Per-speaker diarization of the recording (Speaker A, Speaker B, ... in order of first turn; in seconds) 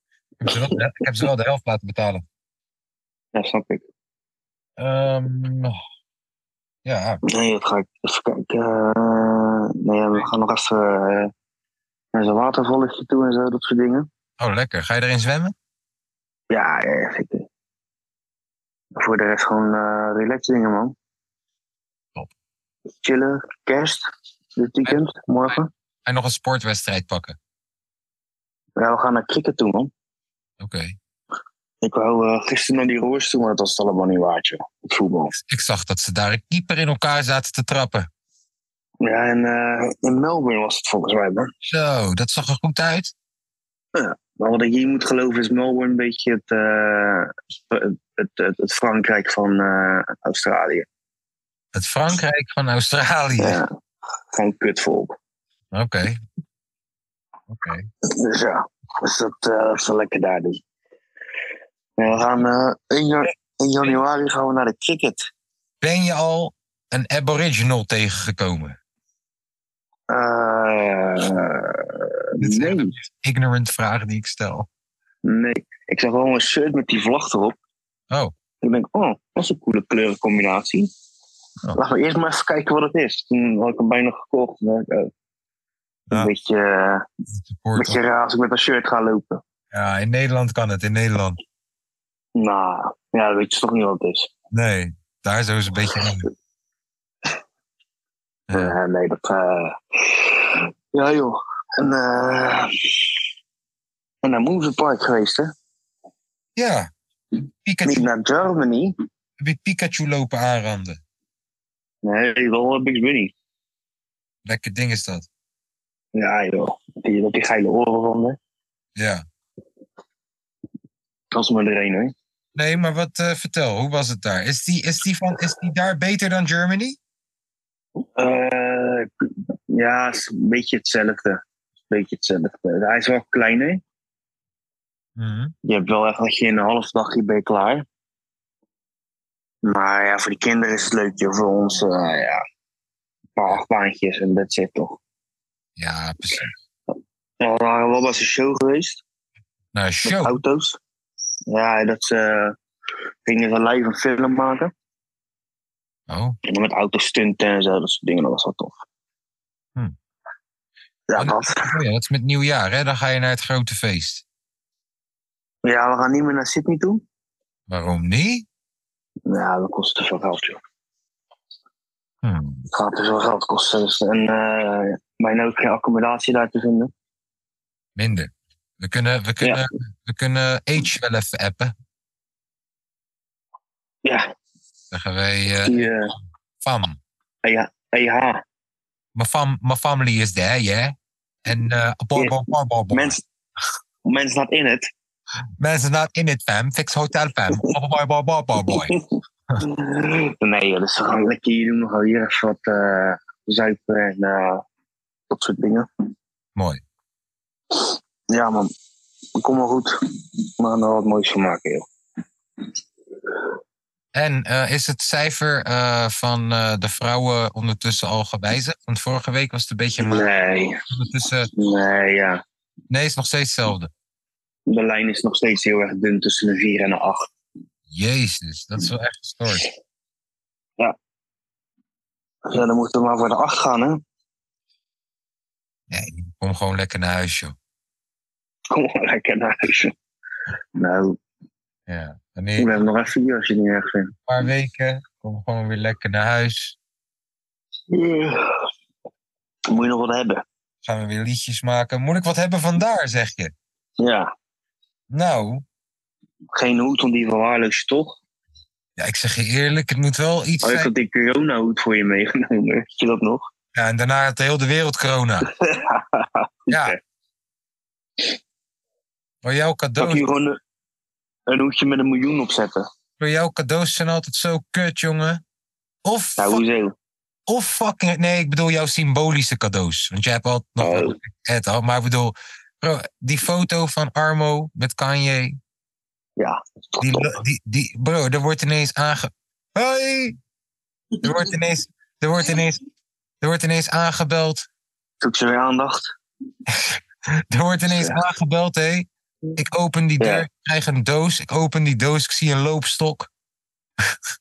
Speaker A: 0.4-2.2, 4.8-5.7, 6.8-7.2, 14.4-15.6, 24.9-27.4, 30.6-31.0, 35.3-38.1, 41.6-43.1, 51.7-53.6, 55.7-56.2, 57.5-57.9, 65.8-68.8, 72.4-74.7, 87.3-88.0, 89.7-91.4, 94.5-96.3, 98.5-98.8, 106.6-106.9, 107.6-108.1, 109.4-111.0, 114.4-115.3, 119.0-119.2, 122.5-127.0, 135.2-135.5, 145.8-146.5, 149.7-150.4, 156.1-156.4, 161.2-164.2, 167.7-168.4, 172.2-172.7, 177.9-181.7, 184.9-185.9, 186.6-187.0, 189.1-190.9, 191.4-193.2, 195.6-198.9, 206.6-206.8, 214.1-220.3, 220.9-221.5, 222.9-223.9, 227.9-229.7, 235.9-237.6, 241.9-242.7, 244.3-246.8, 250.8-253.5, 255.1-255.6, 259.0-260.9, 263.7-265.5, 266.7-266.9, 269.4-270.2, 273.2-275.4, 276.0-276.6, 277.5-285.6, 287.0-290.4, 291.2-292.8, 293.4-294.6, 296.7-303.3
Speaker B: 3.4-3.9, 7.3-11.3, 12.1-14.1, 16.5-17.5, 18.9-20.9, 23.0-25.7, 28.8-29.9, 31.8-35.4, 39.0-41.5, 43.9-50.9, 53.4-53.7, 54.3-55.1, 58.0-60.6, 62.0-65.3, 70.1-72.9, 75.2-77.6, 78.6-80.9, 81.7-85.1, 86.1-87.1, 87.8-89.4, 92.4-94.3, 98.5-102.9, 104.2-105.5, 107.8-108.9, 112.0-113.3, 116.1-118.4, 121.3-122.1, 128.2-133.8, 135.6-137.8, 139.6-142.4, 143.4-145.0, 147.4-149.0, 150.1-150.8, 151.5-152.6, 153.2-154.7, 156.4-158.8, 161.1-161.7, 165.6-167.0, 169.3-170.6, 172.7-176.9, 184.0-184.3, 185.6-186.1, 187.4-188.4, 192.9-193.2, 194.1-194.9, 198.7-199.0, 199.6-204.6, 205.3-205.9, 207.7-208.7, 209.4-210.0, 210.6-211.9, 220.0-220.8, 221.6-222.4, 224.7-227.3, 232.5-234.0, 238.7-239.9, 240.8-241.2, 242.6-244.1, 247.9-248.6, 249.7-250.4, 254.0-254.3, 256.5-258.2, 260.6-263.4, 265.5-267.0, 270.0-270.6, 271.5-272.9, 276.4-276.9, 280.8-281.2, 286.4-287.4, 295.2-296.1, 297.9-298.2, 300.2-300.4